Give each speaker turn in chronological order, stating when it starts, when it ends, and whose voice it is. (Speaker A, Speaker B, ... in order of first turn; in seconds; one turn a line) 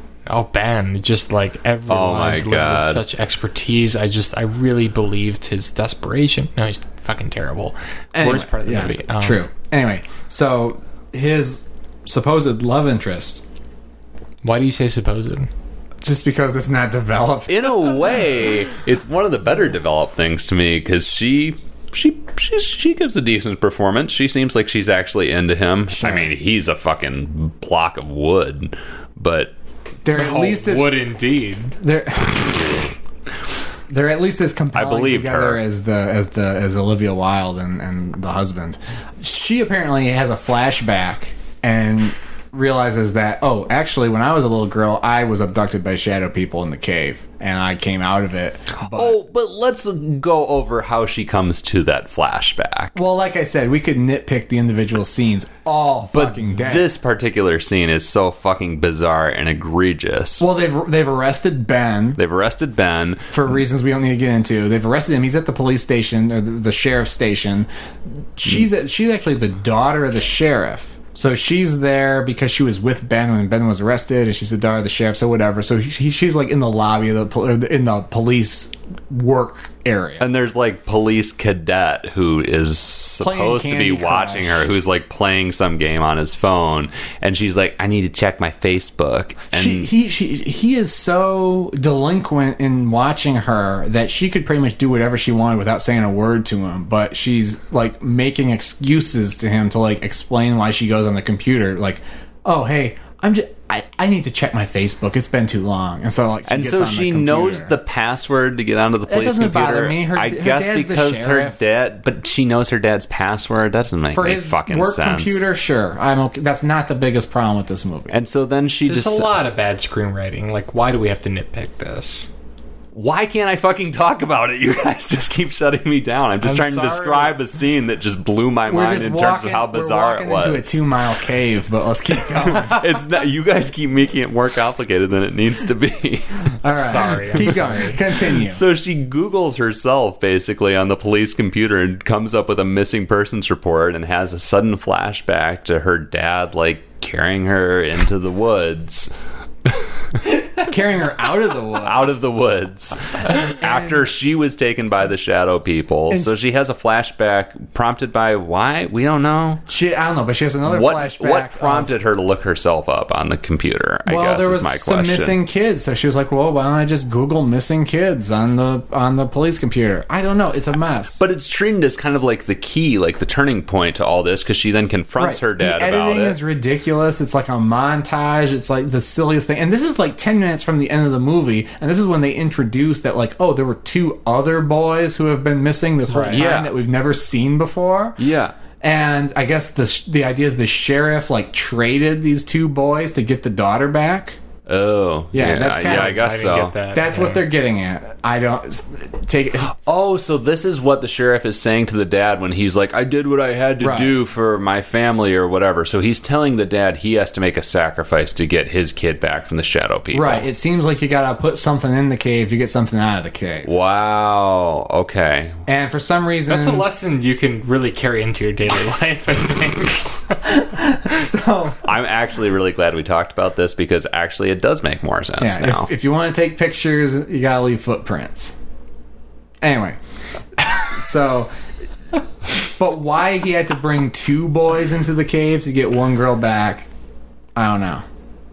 Speaker A: 0.3-9.4
Speaker B: 1.9-3.0
Speaker C: 8.1-13.4
Speaker A: 14.4-15.5
Speaker C: 16.0-18.0
Speaker B: 17.5-29.5
Speaker C: 26.0-26.3
Speaker C: 30.0-31.0
Speaker A: 30.1-31.8
Speaker C: 31.8-32.8
Speaker C: 33.9-49.2
Speaker B: 34.7-35.6
Speaker B: 48.8-53.0
Speaker C: 53.0-56.9
Speaker B: 56.1-60.5
Speaker C: 60.4-62.2
Speaker B: 62.2-63.3
Speaker C: 63.3-67.7
Speaker C: 68.4-80.3
Speaker B: 80.2-89.9
Speaker C: 83.2-84.7
Speaker C: 89.5-107.7
Speaker B: 106.5-115.4
Speaker C: 109.1-111.6
Speaker C: 114.1-118.1
Speaker B: 118.1-119.3
Speaker A: 118.9-122.3
Speaker B: 123.0-130.8
Speaker A: 126.4-127.3
Speaker C: 128.7-133.0
Speaker B: 132.4-136.5
Speaker C: 136.6-138.6
Speaker A: 136.8-138.0
Speaker B: 138.2-149.1
Speaker C: 150.6-152.2
Speaker B: 151.8-159.6
Speaker C: 153.6-154.0
Speaker C: 159.7-161.9
Speaker B: 160.7-165.4
Speaker C: 164.1-171.2
Speaker B: 171.2-176.4
Speaker C: 175.2-188.2
Speaker A: 186.1-186.4
Speaker B: 186.3-186.8
Speaker B: 188.2-188.5
Speaker C: 188.8-194.4
Speaker B: 194.7-196.8
Speaker C: 195.3-196.3
Speaker A: 195.7-197.4
Speaker C: 196.9-199.8
Speaker B: 199.7-210.5
Speaker C: 203.8-204.1
Speaker C: 210.1-213.7
Speaker B: 213.7-215.6
Speaker C: 215.7-216.9
Speaker A: 216.5-220.6
Speaker C: 220.4-221.8
Speaker B: 221.8-225.9
Speaker C: 225.4-228.6
Speaker C: 229.6-230.0
Speaker C: 230.7-231.5
Speaker C: 232.6-236.9
Speaker C: 237.6-238.1